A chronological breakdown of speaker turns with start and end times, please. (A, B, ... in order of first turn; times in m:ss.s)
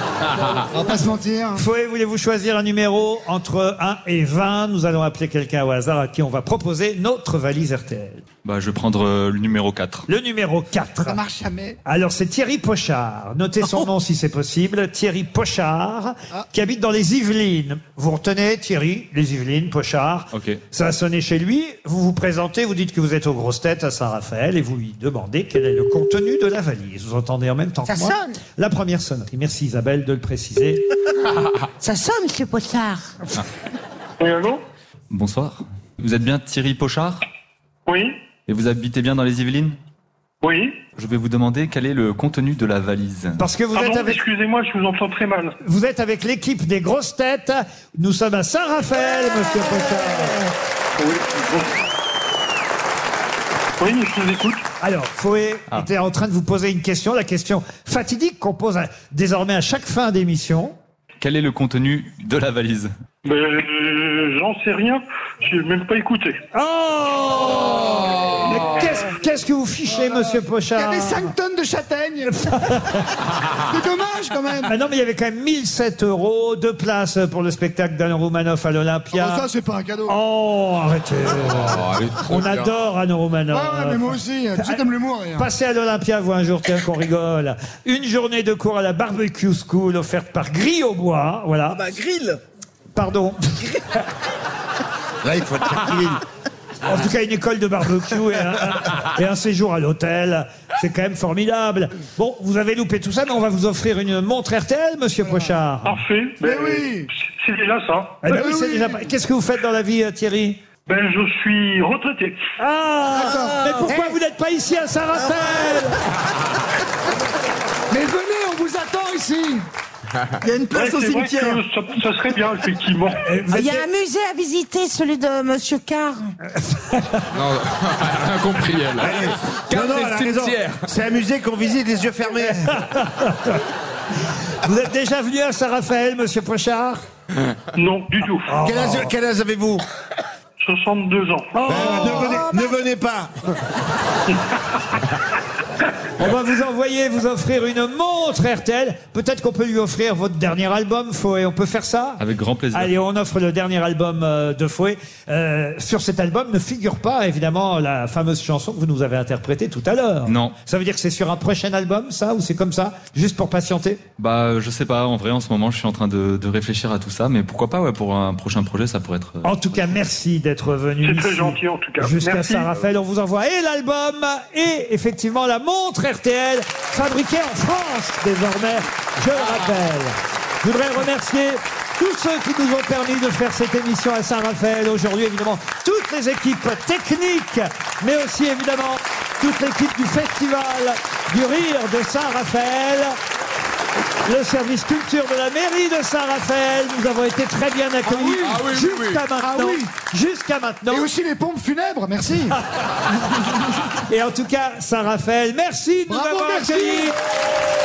0:00.7-0:01.6 A
0:01.6-0:08.2 B
0:08.4-0:10.1 C
0:10.1-0:11.2 B
0:11.0-0:11.8 A
0:11.8-0:30.8 B
0:20.3-0:20.6 C
0:27.9-0:28.4 D
0:31.8-0:33.2 D
0:34.2-0:34.6 E
0:35.1-0:37.2 C
0:37.9-0:38.2 E
0:38.5-0:39.8 C
0:40.4-0:40.8 E
0:41.0-0:43.4 C
0:43.4-0:44.2 B
0:43.7-0:45.5 E
0:45.6-0:50.4 B
0:51.0-0:51.8 E
0:53.8-0:54.6 E
0:54.8-1:00.7 B
1:01.2-1:02.9 C
1:03.2-1:06.4 E
1:06.5-1:11.3 B
1:08.5-1:08.7 A
1:10.0-1:12.4 A
1:12.3-1:13.1 B
1:13.6-1:14.7 A
1:14.6-1:19.5 B
1:19.1-1:20.2 A
1:20.1-1:24.8 B
1:21.4-1:22.7 F
1:23.5-1:25.5 A
1:25.4-1:31.8 B
1:31.7-1:32.4 G
1:32.9-1:33.8 B
1:35.2-1:36.2 H
1:36.8-1:46.0 B
1:45.2-1:45.6 A
1:45.8-1:48.2 E
1:46.4-1:47.1 A
1:48.2-1:50.6 B
1:48.2-1:49.0 A
1:50.9-1:52.4 E
1:52.6-1:56.0 B
1:53.2-1:54.1 A
1:53.4-1:53.9 G
1:57.9-1:59.6 A
2:00.4-2:01.6 G
2:00.7-2:03.3 E
2:03.3-2:03.8 B
2:03.5-2:06.3 D
2:06.6-2:07.3 B
2:07.3-2:10.8 F
2:09.0-2:12.8 H
2:12.5-2:13.6 B
2:14.6-2:17.0 B
2:17.7-2:18.6 E
2:18.5-2:19.1 B
2:18.6-2:19.8 H
2:20.6-2:22.2 E
2:21.5-2:22.5 B
2:21.6-2:23.4 H
2:26.2-2:32.2 B
2:32.2-2:32.9 C
2:32.7-2:44.0 B
2:40.2-2:40.5 C
2:44.2-2:49.8 C
2:49.4-3:13.2 B
2:51.0-2:52.7 E
3:14.2-3:21.1 B
3:18.0-3:18.7 A
3:18.4-3:19.2 F
3:19.3-3:19.9 A
3:20.9-3:22.6 A
3:24.0-3:27.1 B
3:26.1-3:27.1 A